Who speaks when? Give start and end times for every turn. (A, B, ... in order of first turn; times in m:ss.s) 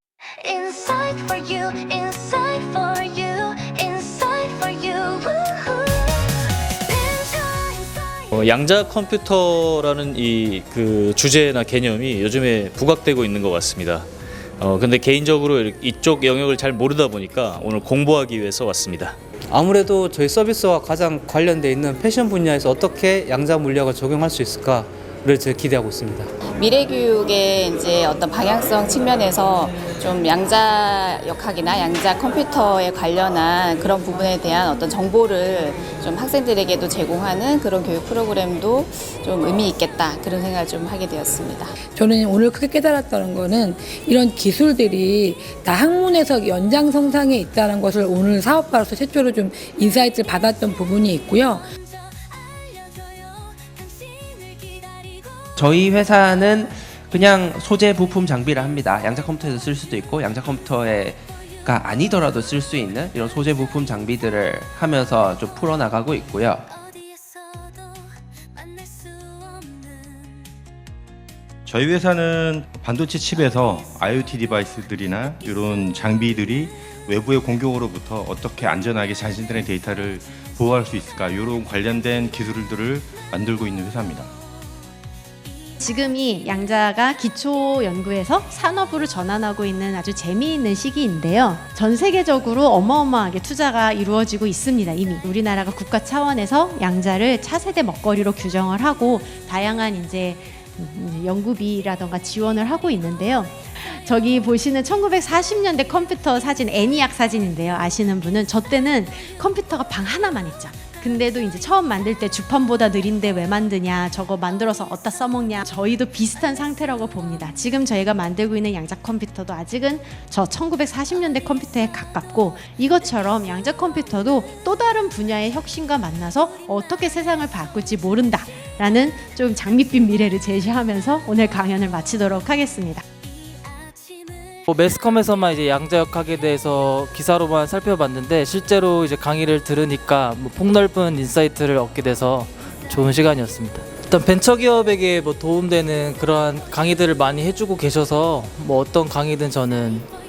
0:00.4-0:08.3 A
0:08.3-0:14.1 B
0:14.6-0:19.2 B
0:19.5-0:26.3 C
0:26.6-0:41.7 D
0:41.9-0:51.7 E
0:52.1-0:55.4 A
0:55.6-1:06.7 F
1:07.3-1:07.7 A
1:08.6-1:10.0 A
1:11.7-1:24.3 G
1:25.8-2:13.0 H
2:14.7-2:30.1 I